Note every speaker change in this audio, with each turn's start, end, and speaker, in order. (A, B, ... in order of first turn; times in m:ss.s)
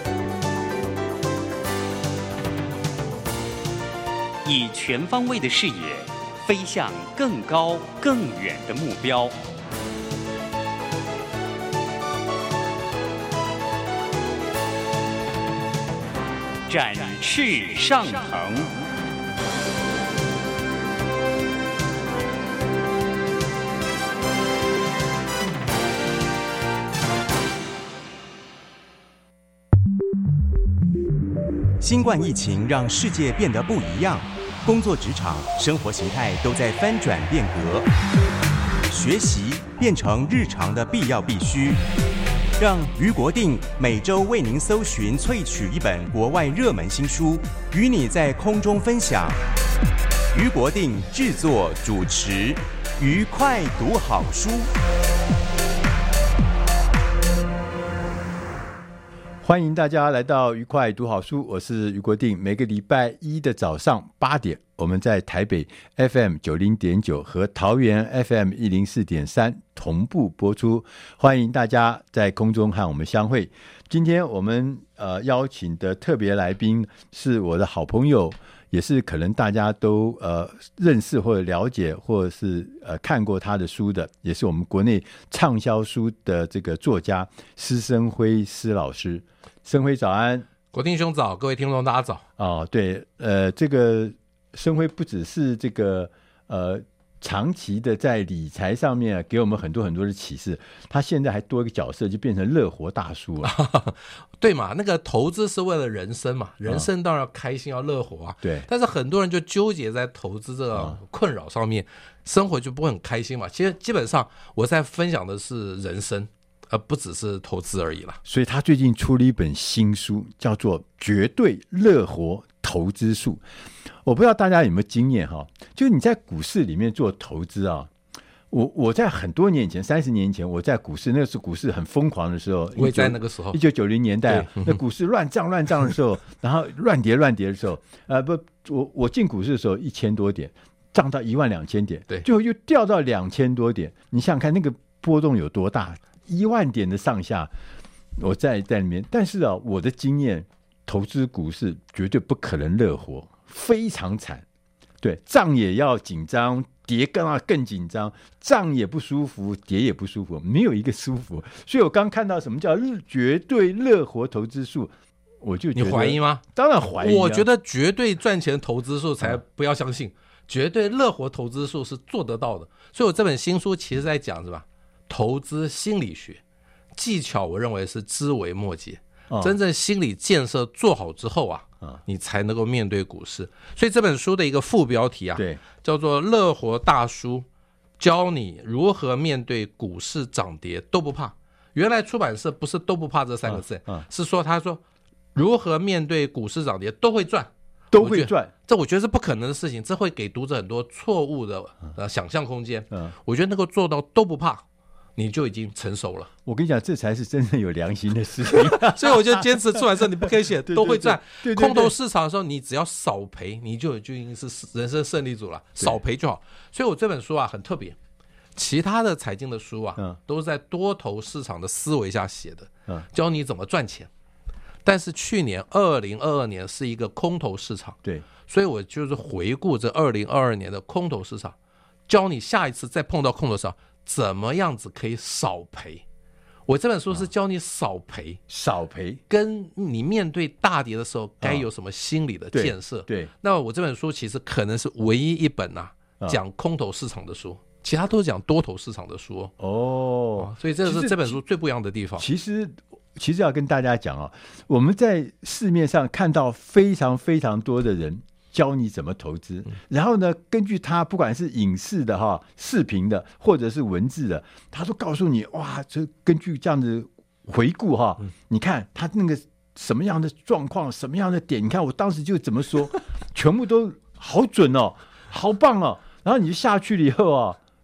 0:04.4-0:09.4 A
0:16.7-0:18.8 A
0:31.8-0:37.9 B
0:38.9-0:41.8 B
0:42.6-0:49.4 B
0:50.3-0:54.7 B
0:59.4-1:30.5 C
1:30.7-1:32.2 D
1:32.4-1:43.5 C
1:43.4-1:58.2 D
1:48.4-1:48.7 C
1:58.2-2:03.4 C
2:04.0-2:07.9 C
2:08.5-2:27.5 C
2:12.8-2:13.6 D
2:14.3-2:14.8 D
2:28.2-2:34.4 C
2:35.0-2:47.4 C
2:45.7-2:46.4 D
2:47.0-2:56.4 D
2:57.0-3:07.4 D
2:59.3-2:59.6 C
3:05.4-3:05.6 C
3:08.0-3:14.8 D
3:13.5-3:14.0 C
3:15.3-3:24.6 D
3:17.9-3:18.5 C
3:25.2-3:26.3 D
3:26.4-3:31.9 C
3:28.5-3:38.0 D
3:38.6-3:44.1 D
3:44.8-3:51.5 D
3:52.1-3:56.0 D
3:56.7-3:58.4 D
3:58.5-3:59.2 C
3:59.3-4:09.5 D
4:01.4-4:01.6 C
4:02.5-4:03.3 C
4:09.6-4:11.4 C
4:10.4-4:12.2 D
4:12.2-4:37.6 C